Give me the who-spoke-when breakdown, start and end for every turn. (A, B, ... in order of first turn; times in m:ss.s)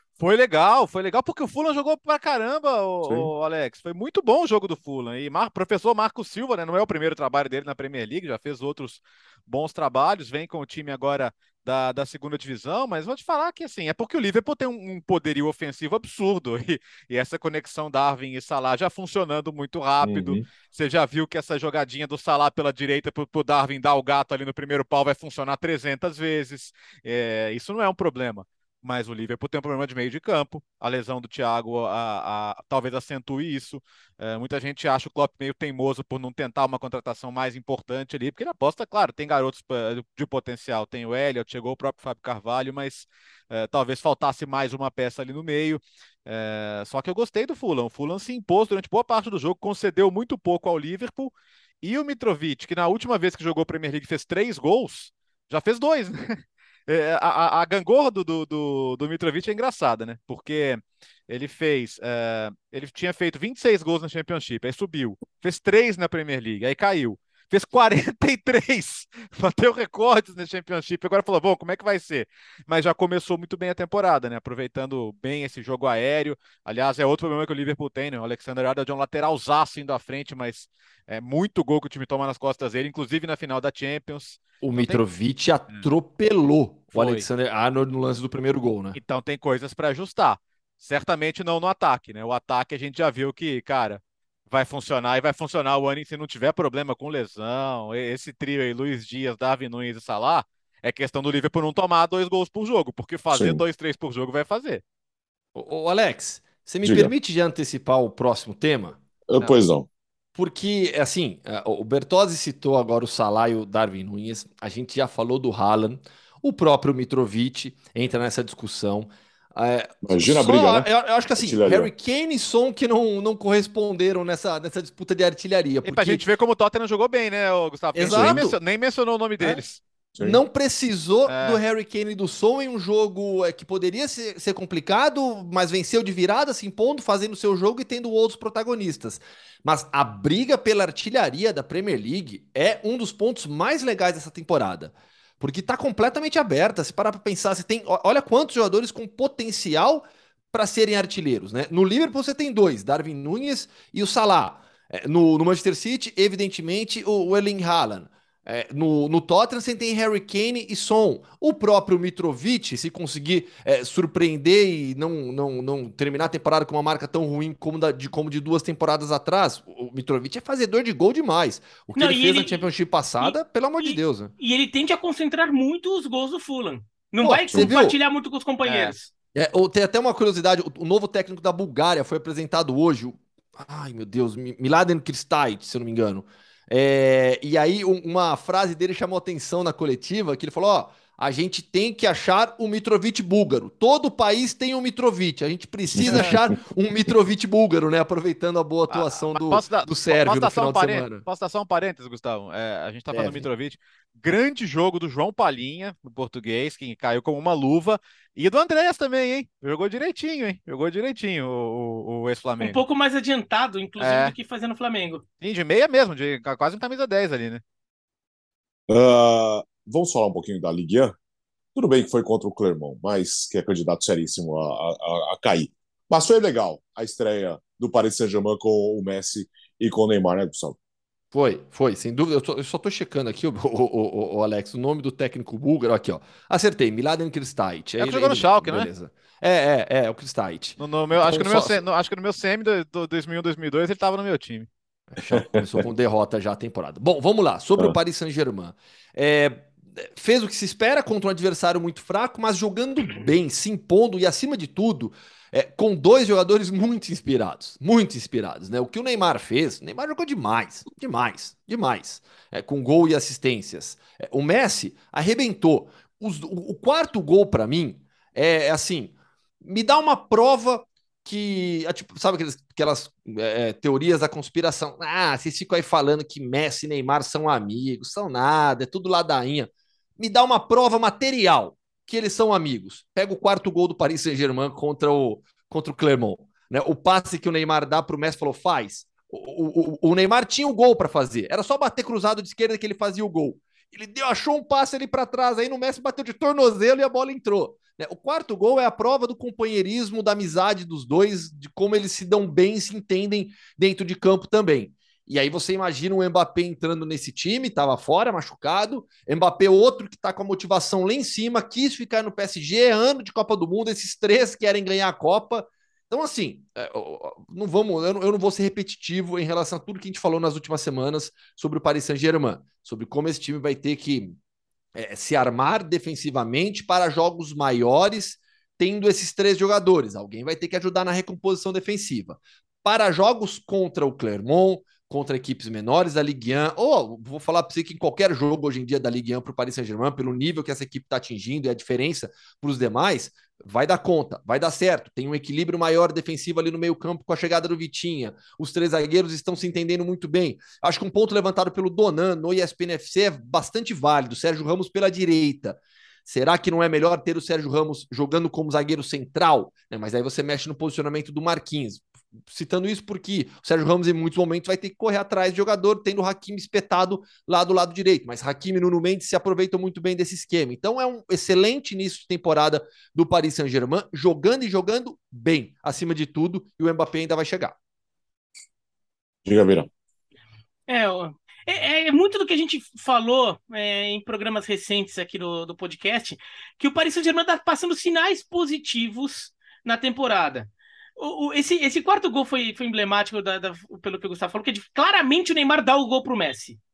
0:00.2-1:25.0 A
0:03.0-0:03.3 B
0:20.0-0:20.5 B
1:24.6-1:29.0 C
1:26.9-1:27.3 A
1:28.9-1:44.8 A
1:43.3-1:43.6 B
1:45.6-1:49.0 C
1:46.8-1:47.1 B
1:49.3-1:49.9 B
1:50.4-2:06.2 C
2:00.0-2:01.9 B
2:05.8-2:09.8 A
2:08.0-2:08.6 C
2:10.2-2:54.3 C
2:11.3-2:11.6 A
2:52.0-2:52.7 D
2:53.2-2:59.1 D
2:57.2-2:58.0 C
2:58.6-2:58.9 A
2:59.3-3:21.2 C
3:16.0-3:16.4 B
3:16.1-3:16.4 A
3:18.9-3:32.8 A
3:23.1-3:23.5 C
3:32.6-3:35.2 D
3:34.0-3:34.4 A
3:35.4-3:37.6 A
3:38.9-3:41.2 B
3:41.8-3:50.8 B
3:51.3-4:01.8 C
3:58.0-3:58.9 A
4:00.8-4:04.7 A
4:05.1-5:24.4 C
4:05.4-4:05.6 B
5:24.9-6:17.8 C
6:19.5-6:19.9 B
6:20.9-6:36.8 D